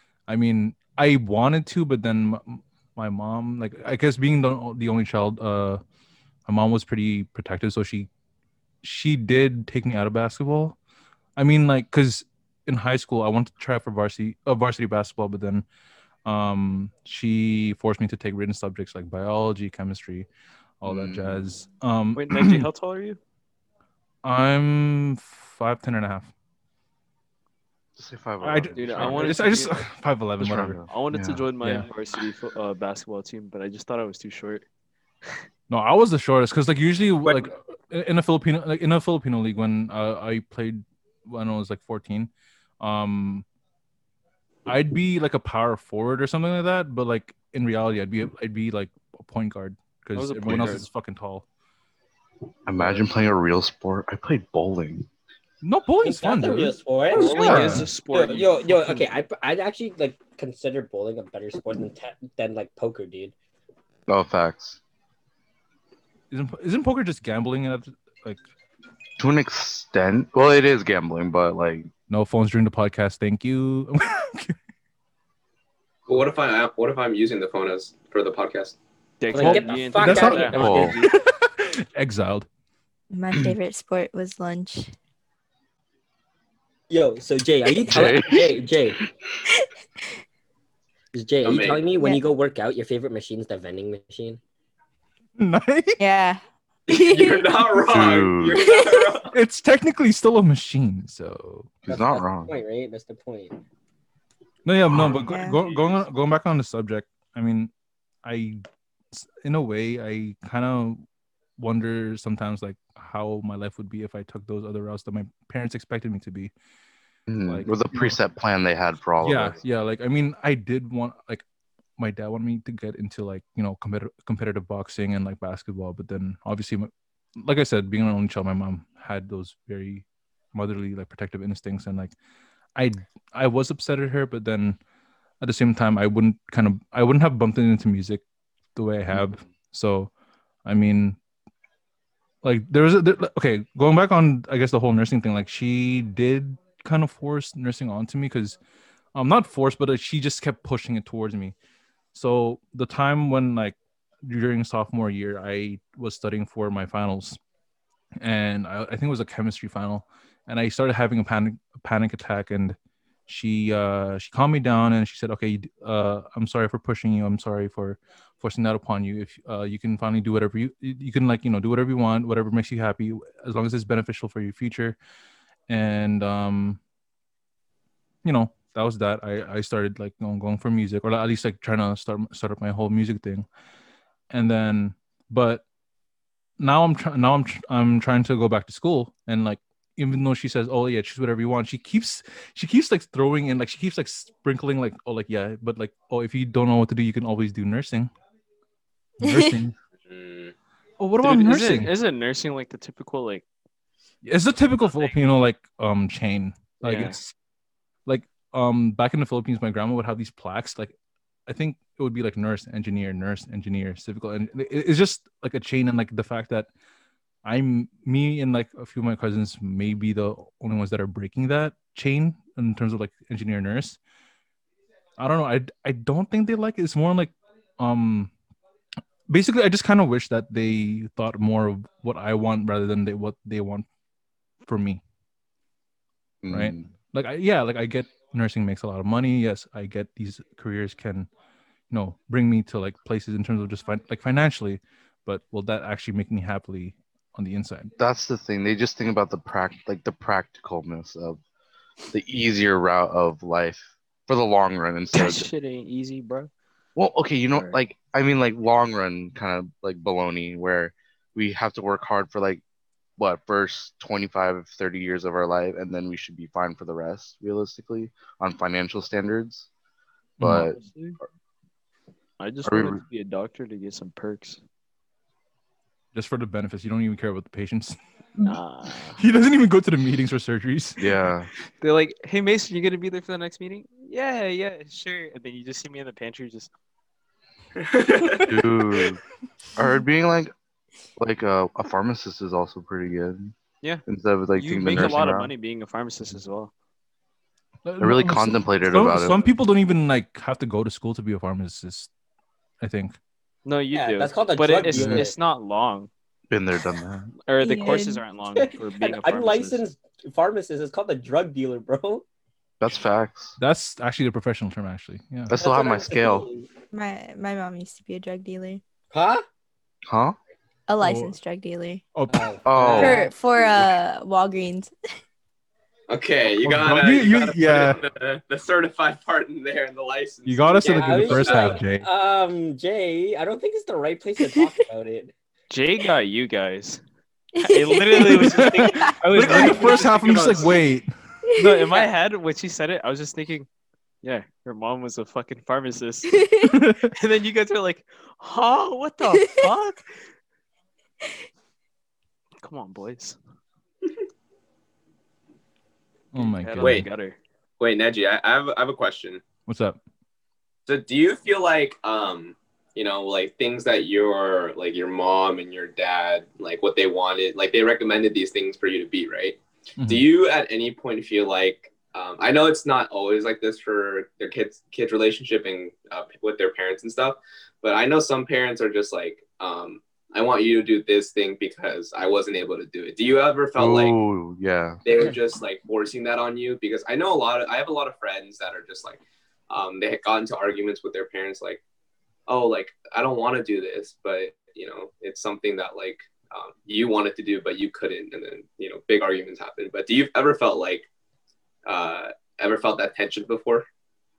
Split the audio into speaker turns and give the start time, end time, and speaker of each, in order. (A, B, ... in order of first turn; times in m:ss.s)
0:00.3-0:05.8 A
0:06.4-0:08.1 A
0:08.8-0:10.8 A
0:11.4-0:15.6 A
0:16.2-0:20.3 A
0:20.8-0:22.7 A
0:20.8-0:21.5 B
0:22.2-0:23.2 C
0:24.2-0:26.3 A
0:28.0-0:29.4 B
0:28.4-0:30.8 A
0:28.8-0:29.8 C
0:30.4-0:31.4 B
0:30.9-0:34.6 C
0:31.6-0:31.9 A
0:35.7-0:43.4 A
0:44.7-0:51.4 A
0:50.1-0:50.9 C
0:52.6-0:55.1 B
0:55.6-0:57.9 A
0:56.0-1:03.3 D
0:57.1-0:59.1 C
1:04.1-1:04.8 B
1:06.3-1:08.4 A
1:09.2-1:11.9 B
1:12.1-1:14.6 A
1:16.1-1:18.8 E
1:19.2-1:21.1 C
1:19.3-1:21.0 D
1:19.4-1:22.5 A
1:20.5-1:21.0 B
1:23.1-1:24.9 F
1:26.9-1:29.0 D
1:27.9-1:28.8 B
1:31.1-1:34.4 D
1:31.4-1:31.9 E
1:35.4-1:36.0 A
1:36.0-1:37.6 F
1:36.9-1:39.4 E
1:37.8-1:38.6 B
1:38.6-1:39.1 F
1:39.3-1:41.7 A
1:41.8-1:43.6 D
1:41.9-1:42.5 B
1:44.6-1:47.7 A
1:45.3-1:45.6 F
1:48.2-1:51.0 A
1:51.6-1:56.5 A
1:57.3-1:59.6 B
1:57.4-1:58.2 A
1:59.2-2:01.4 A
2:02.0-2:12.1 A
2:12.8-2:14.8 A
2:15.4-2:18.2 A
2:18.7-2:20.1 A
2:20.6-2:21.2 A
2:22.4-2:28.6 A
2:29.1-2:31.5 A
2:32.1-2:37.4 A
2:38.2-2:42.8 A
2:43.3-2:55.0 A
2:55.7-2:56.8 A
2:58.2-3:03.4 A
3:04.3-3:05.6 A
3:06.6-3:18.1 A
3:19.2-3:19.7 A
3:19.2-3:19.5 F
3:20.0-3:20.5 E
3:21.0-3:21.9 A
3:21.2-3:23.4 C
3:24.2-3:27.3 A
3:26.8-3:27.2 C
3:28.0-3:30.9 A
3:31.5-3:36.7 A
3:37.4-3:44.0 A
3:45.2-3:48.3 A
3:49.3-3:53.9 A
3:54.6-3:55.0 A
3:56.4-3:56.9 B
3:56.5-4:01.3 A
4:01.9-4:07.9 A
4:08.0-4:11.4 B
4:12.1-4:15.5 B
4:15.1-4:16.5 C
4:17.0-4:22.6 B
4:23.2-4:29.7 B
4:30.4-4:30.7 A
4:30.4-4:30.8 B
4:30.7-4:31.2 C
4:32.4-4:34.6 C
4:32.6-4:33.0 B
4:36.1-4:38.6 A
4:38.4-4:39.2 C
4:39.2-4:41.1 A
4:41.0-4:41.5 B
4:41.8-4:46.7 C
4:47.8-4:48.4 E
4:48.5-4:49.2 B
4:49.8-4:50.5 B
4:51.2-4:53.5 B
4:54.0-4:55.5 B
4:54.6-4:56.7 C
4:57.8-5:02.1 A
4:58.0-4:59.4 B
5:02.8-5:03.2 A
5:03.6-5:06.1 C
5:03.9-5:05.3 D
5:04.9-5:05.3 B
5:06.5-5:07.3 B
5:07.4-5:09.8 C
5:07.6-5:08.2 F
5:08.4-5:12.2 D
5:12.8-5:13.6 B
5:13.6-5:15.6 A
5:15.5-5:16.5 B
5:15.6-5:16.6 D
5:16.9-5:18.8 F
5:19.1-5:19.4 D
5:20.1-5:20.4 B
5:20.9-5:22.1 F
5:21.0-5:21.4 A
5:22.1-5:23.0 A
5:22.3-5:23.3 D
5:22.6-5:23.3 B
5:22.9-5:24.9 F
5:26.1-5:31.8 E
5:26.6-5:28.0 A
5:30.4-5:32.0 A
5:30.9-5:35.3 D
5:35.7-5:37.0 C
5:37.6-5:39.9 F
5:37.6-5:40.8 C
5:38.3-5:41.1 A
5:41.5-5:42.1 F
5:41.6-5:43.7 C
5:44.2-5:46.4 C
5:46.4-5:46.6 F
5:46.6-5:47.1 A
5:47.1-5:50.0 C
5:52.6-5:53.4 C
5:56.3-5:57.1 A
5:56.3-5:57.4 C
5:56.8-5:57.0 E
5:57.8-5:59.4 E
5:59.7-6:00.0 A
6:00.9-6:24.2 E
6:10.0-6:10.2 A
6:23.7-6:25.0 B
6:25.0-6:31.8 E
6:32.5-6:41.1 E
6:41.8-6:43.9 E